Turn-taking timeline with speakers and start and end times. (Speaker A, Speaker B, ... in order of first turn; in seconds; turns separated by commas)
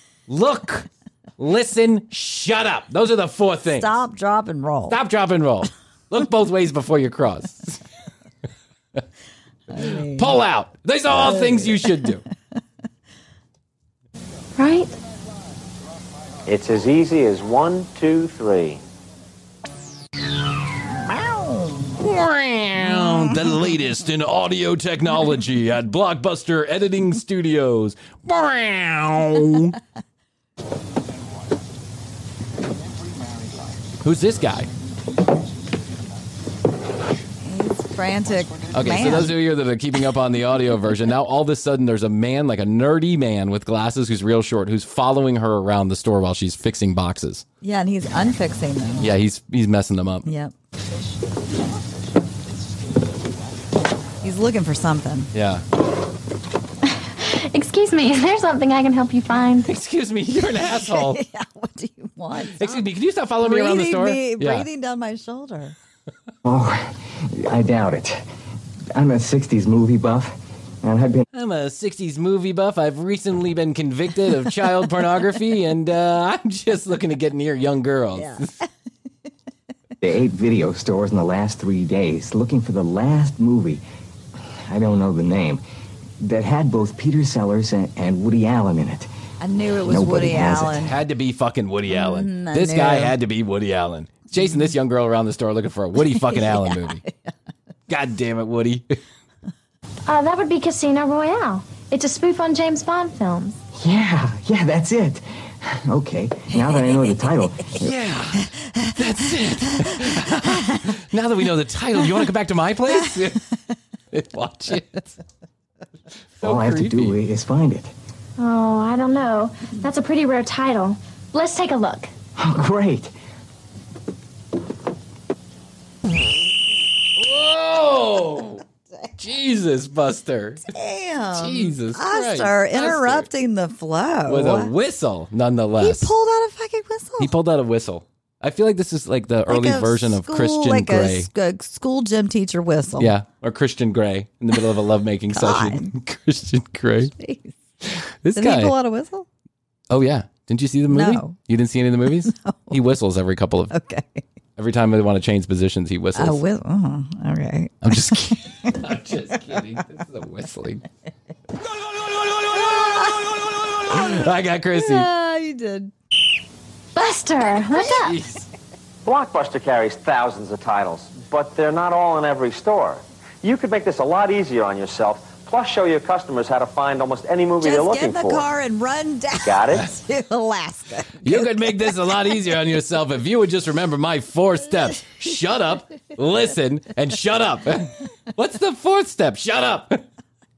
Speaker A: 0.3-3.9, Speaker B: 3.8-5.0, Speaker A: 4.9-7.8, Speaker B: 9.7-10.4, Speaker A: 10.2-12.2, Speaker B: 11.1-12.0, Speaker C: 14.6-14.9, Speaker D: 16.4-18.8, Speaker B: 21.1-21.9, Speaker A: 22.0-29.8, Speaker B: 22.8-23.4, Speaker A: 34.0-34.7, Speaker B: 37.4-39.3, Speaker A: 38.7-47.4, Speaker B: 47.6-49.1, Speaker A: 49.0-50.3, Speaker B: 50.2-50.5, Speaker B: 54.2-55.3, Speaker A: 55.3-55.6, Speaker C: 57.2-59.7, Speaker A: 59.6-61.2, Speaker B: 60.6-62.8, Speaker A: 62.5-64.7, Speaker B: 63.4-65.7, Speaker E: 66.4-68.2, Speaker E: 68.9-71.2, Speaker A: 71.3-78.5, Speaker B: 78.2-78.6, Speaker E: 80.0-83.8, Speaker E: 84.7-85.6, Speaker E: 86.2-89.1, Speaker B: 89.4-90.9, Speaker E: 89.8-90.8, Speaker A: 90.7-97.0, Speaker B: 91.9-93.1, Speaker B: 96.1-97.3, Speaker A: 97.9-99.0, Speaker C: 100.1-103.6, Speaker E: 103.8-107.9, Speaker A: 107.8-113.5, Speaker A: 114.1-115.1, Speaker A: 116.4-117.2, Speaker E: 116.4-117.9, Speaker C: 118.4-122.1, Speaker E: 122.4-123.1, Speaker A: 127.2-128.6, Speaker A: 129.2-130.7, Speaker B: 130.7-134.7, Speaker A: 131.3-133.3, Speaker A: 134.3-136.1, Speaker B: 135.8-137.3, Speaker A: 137.2-141.3, Speaker B: 139.5-143.1, Speaker A: 143.0-147.1, Speaker B: 145.3-145.9, Speaker B: 147.2-147.5, Speaker A: 147.8-148.7, Speaker B: 148.3-149.2, Speaker A: 149.9-153.7, Speaker B: 150.9-151.3, Speaker B: 152.2-152.7, Speaker B: 153.7-154.2, Speaker A: 154.6-156.4, Speaker B: 156.2-158.7, Speaker A: 157.8-160.8, Speaker A: 162.4-163.1, Speaker B: 162.5-163.2, Speaker A: 163.9-165.1, Speaker B: 163.9-165.9, Speaker C: 166.9-168.2, Speaker A: 167.7-168.4, Speaker D: 169.0-178.5, Speaker B: 177.6-181.9, Speaker D: 179.4-179.8, Speaker A: 181.2-190.0